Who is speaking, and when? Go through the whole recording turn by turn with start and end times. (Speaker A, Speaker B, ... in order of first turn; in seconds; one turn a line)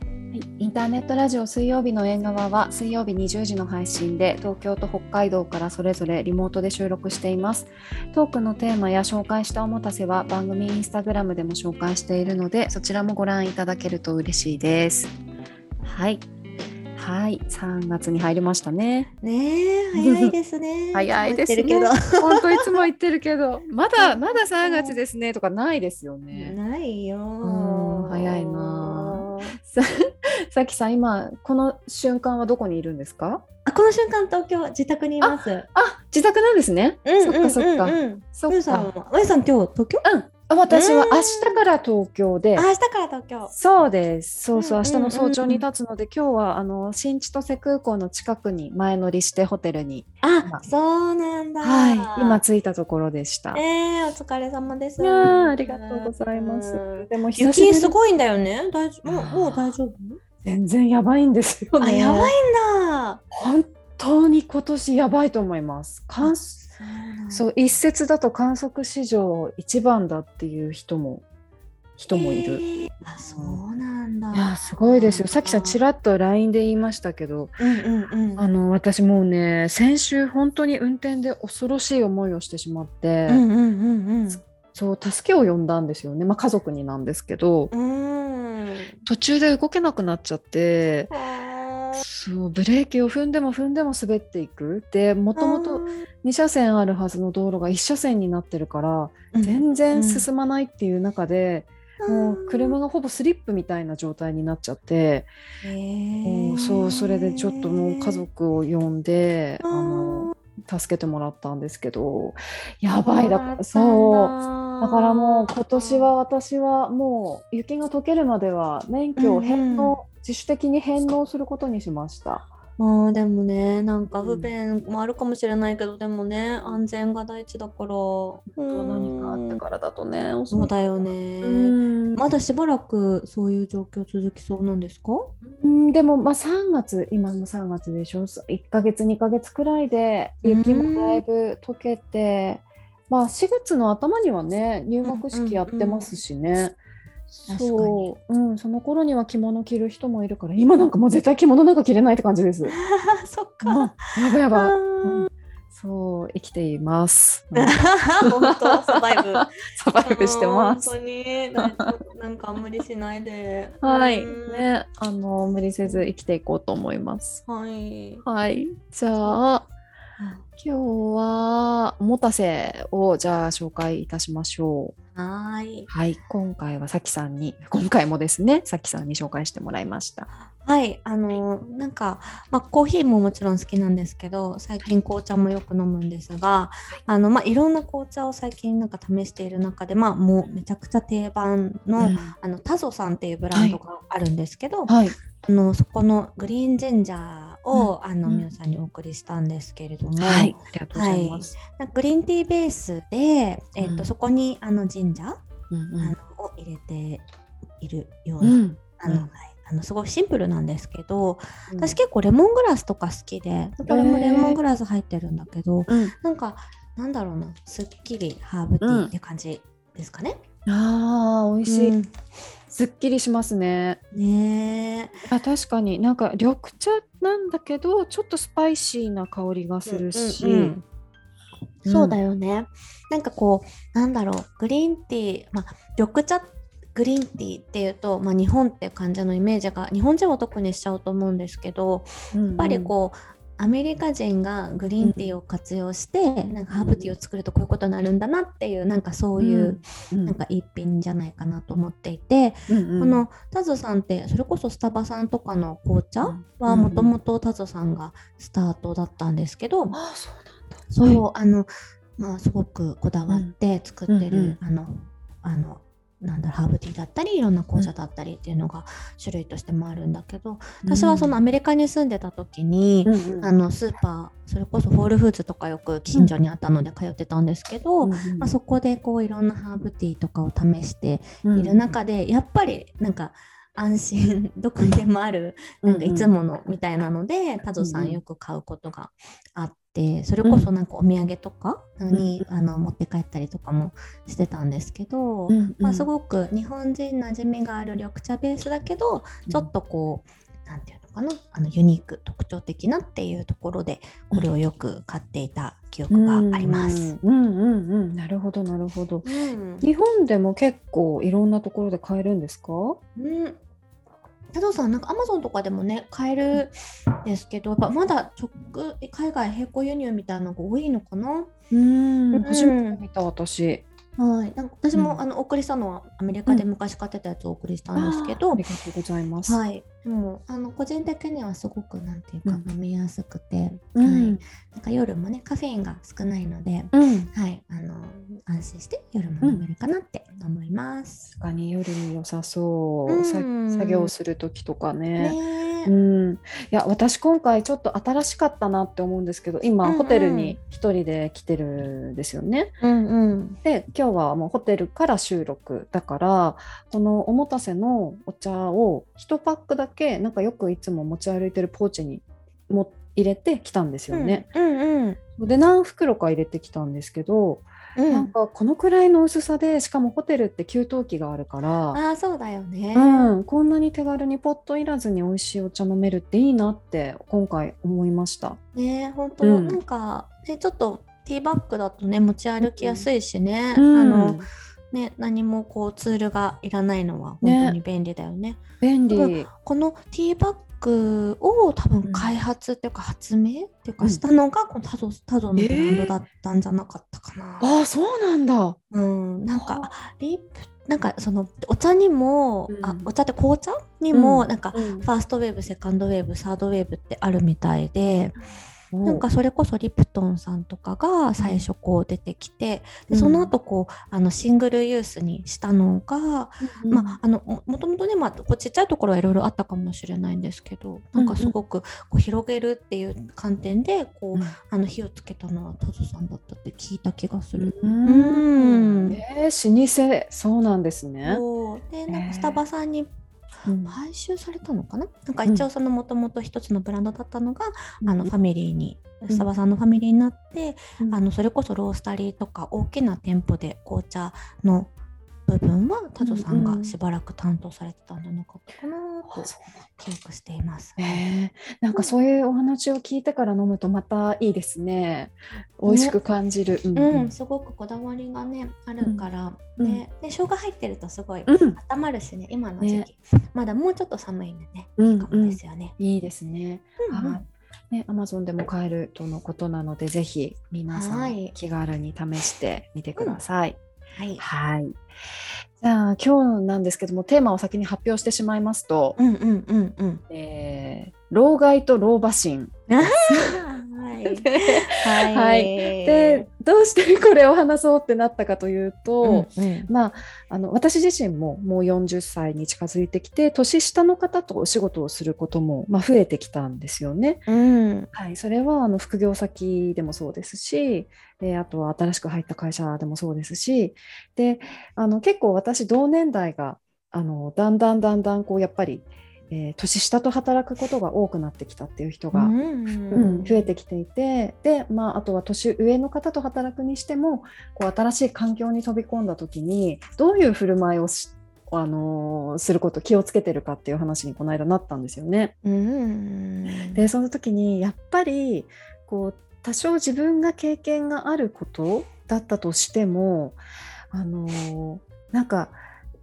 Speaker A: 0.3-15.1
Speaker A: 15.8-16.2
Speaker A: 16.9-19.1
Speaker B: 19.2-22.7
Speaker A: 20.0-20.3
Speaker A: 20.9-26.6
Speaker B: 23.9-25.0
Speaker B: 26.3-29.6
Speaker A: 27.4-33.4
Speaker B: 33.6-35.7
Speaker A: 35.2-38.9
Speaker B: 37.0-40.0
Speaker A: 40.0-42.7
Speaker B: 40.7-41.6
Speaker B: 42.5-43.5
Speaker A: 43.5-50.6
Speaker B: 44.5-45.6
Speaker B: 50.2-52.4
Speaker A: 51.6-53.6
Speaker B: 53.5-60.2
Speaker A: 55.0-57.9
Speaker A: 59.0-59.8
Speaker A: 60.4-62.3
Speaker B: 61.8-63.2
Speaker A: 63.3-66.6
Speaker B: 66.2-67.5
Speaker A: 67.3-71.2
Speaker A: 72.0-72.6
Speaker B: 72.1-75.8
Speaker A: 73.2-73.6
Speaker A: 74.3-77.6
Speaker B: 77.6-78.5
Speaker A: 78.4-83.4
Speaker B: 83.3-84.4
Speaker A: 84.3-87.7
Speaker B: 87.7-89.0
Speaker A: 89.0-91.1
Speaker B: 91.1-92.0
Speaker A: 92.0-105.3
Speaker B: 95.3-96.0
Speaker B: 99.3-100.3
Speaker B: 102.0-102.8
Speaker B: 105.6-108.2
Speaker A: 106.2-122.5
Speaker B: 109.6-110.3
Speaker B: 113.0-116.1
Speaker B: 119.2-120.0
Speaker B: 122.8-129.6
Speaker A: 124.2-124.5
Speaker A: 128.6-130.7
Speaker B: 130.5-135.3
Speaker A: 131.4-132.2
Speaker A: 135.5-146.8
Speaker B: 140.4-141.2
Speaker B: 145.0-146.1
Speaker A: 147.3-152.7
Speaker B: 147.5-148.1
Speaker B: 152.6-155.3
Speaker A: 153.6-160.9
Speaker B: 157.5-164.6
Speaker A: 163.8-167.4
Speaker B: 165.8-166.1
Speaker B: 167.4-168.2
Speaker A: 168.2-169.7
Speaker B: 170.2-170.4
Speaker A: 170.6-174.9
Speaker B: 175.1-175.9
Speaker A: 175.9-180.3
Speaker B: 180.5-205.4
Speaker A: 192.0-192.3
Speaker A: 193.5-193.8
Speaker A: 194.9-195.2
Speaker A: 197.7-198.5
Speaker A: 200.2-201.5
Speaker A: 203.8-204.1
Speaker A: 205.7-206.2
Speaker B: 206.0-207.2
Speaker B: 207.8-220.4
Speaker A: 208.4-209.3
Speaker A: 211.7-212.0
Speaker A: 213.9-214.6
Speaker A: 215.9-216.1
Speaker A: 218.8-219.1
Speaker A: 220.7-221.9
Speaker B: 221.6-222.1
Speaker A: 222.7-224.0
Speaker B: 224.1-225.2
Speaker A: 225.2-230.8
Speaker B: 229.8-230.8
Speaker B: 231.8-259.9
Speaker A: 231.8-232.2
Speaker A: 242.3-242.9
Speaker A: 245.0-245.4
Speaker A: 246.7-247.1
Speaker A: 249.4-250.3
Speaker A: 252.7-253.2
Speaker A: 256.2-257.1
Speaker A: 259.9-261.2
Speaker B: 260.9-307.1
Speaker A: 264.1-264.6
Speaker A: 270.8-271.4
Speaker A: 273.1-273.5
Speaker A: 278.0-278.5
Speaker A: 281.4-281.8
Speaker A: 285.8-286.3
Speaker A: 287.8-288.2
Speaker A: 290.4-290.7
Speaker A: 292.1-292.4
Speaker A: 295.5-296.1
Speaker A: 306.1-313.0
Speaker B: 309.2-309.9
Speaker B: 313.1-313.6
Speaker B: 314.5-321.5
Speaker A: 321.7-323.8
Speaker B: 322.3-323.0
Speaker B: 324.2-328.6
Speaker A: 324.9-325.2
Speaker A: 327.9-329.6
Speaker B: 329.4-341.3
Speaker A: 333.9-334.4
Speaker A: 336.9-337.3
Speaker A: 341.3-352.8
Speaker B: 343.1-344.1
Speaker B: 345.2-345.9
Speaker B: 349.8-350.6
Speaker B: 352.8-353.6
Speaker A: 353.6-364.5
Speaker B: 364.1-365.2
Speaker A: 365.4-372.0
Speaker B: 367.9-368.3
Speaker B: 371.9-373.3
Speaker A: 372.9-378.6
Speaker B: 378.7-397.7
Speaker A: 379.4-379.8
Speaker A: 382.6-383.1
Speaker A: 383.7-384.5
Speaker A: 387.4-387.8
Speaker A: 388.8-389.5
Speaker A: 392.0-392.3
Speaker A: 395.6-396.1
Speaker A: 397.6-398.8
Speaker B: 398.9-408.4
Speaker A: 399.5-399.9
Speaker A: 402.7-403.1
Speaker A: 404.1-405.1
Speaker A: 408.9-409.2
Speaker B: 409.0-429.2
Speaker A: 411.4-411.6
Speaker A: 413.1-413.5
Speaker A: 416.6-417.2
Speaker A: 421.2-421.5
Speaker A: 427.6-431.4
Speaker B: 431.2-433.1
Speaker A: 432.1-432.6
Speaker A: 433.6-434.0
Speaker B: 433.9-444.9
Speaker A: 438.0-438.3
Speaker B: 445.5-451.2
Speaker A: 446.2-446.9
Speaker A: 449.3-449.6
Speaker A: 451.0-457.3
Speaker B: 455.9-456.1
Speaker B: 456.9-465.9
Speaker A: 459.0-459.2
Speaker A: 459.8-460.0
Speaker A: 461.5-461.8
Speaker A: 462.8-463.1
Speaker A: 465.0-473.8
Speaker B: 467.0-467.4
Speaker B: 470.9-471.5
Speaker B: 474.1-474.4
Speaker A: 474.4-475.0
Speaker A: 475.8-479.2
Speaker B: 479.2-480.2
Speaker A: 480.3-483.6
Speaker B: 482.9-486.4
Speaker A: 484.3-497.5
Speaker B: 489.2-489.9
Speaker B: 497.5-498.1
Speaker A: 498.1-512.5
Speaker B: 512.3-513.7
Speaker A: 513.1-525.5
Speaker B: 525.6-527.0
Speaker A: 526.9-533.6
Speaker A: 534.1-535.8